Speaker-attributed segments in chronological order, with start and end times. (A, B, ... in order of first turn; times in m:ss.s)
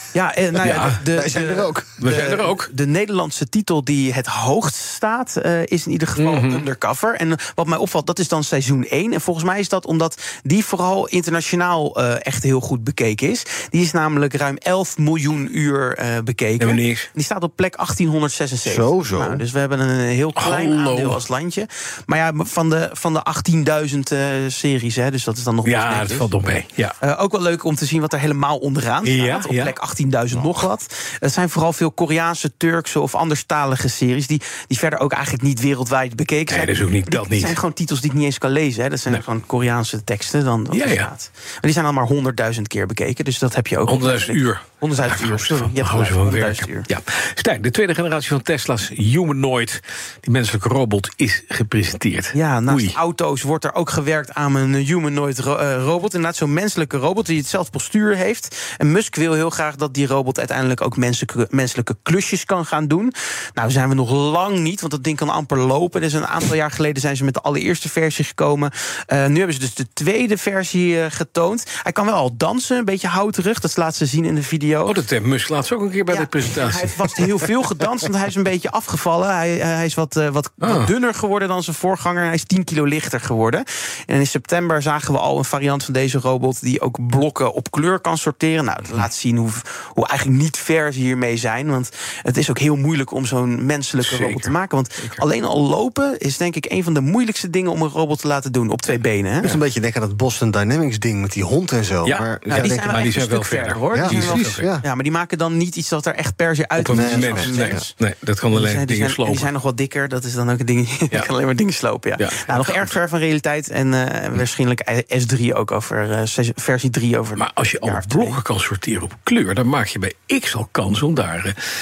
0:00.1-0:26.3 A
0:00.6-0:01.0 B
0:00.7-0:02.2 C
0:02.0-0:02.7 B
0:06.2-0:06.6 B
0:16.6-0:17.1 B
0:18.6-0:19.4 C
0:20.3-0:21.2 B
0:25.6-0:26.9 B
0:27.0-0:46.9 A
0:29.0-0:29.7 B
0:30.3-0:30.6 B
0:36.5-0:37.6 B
0:40.7-0:41.1 B
0:43.8-0:53.0 B
0:52.3-1:14.9 A
1:14.8-1:17.2 B
1:16.1-1:39.6 A
1:20.6-1:20.9 B
1:34.0-1:35.2 B
1:39.4-1:43.1 C
1:42.0-1:44.7 B
1:42.5-1:47.9 A
1:43.9-1:44.8 C
1:46.8-1:49.5 B
1:46.8-1:47.8 C
1:48.5-1:58.4 A
1:52.2-1:53.0 B
1:57.4-2:01.6 B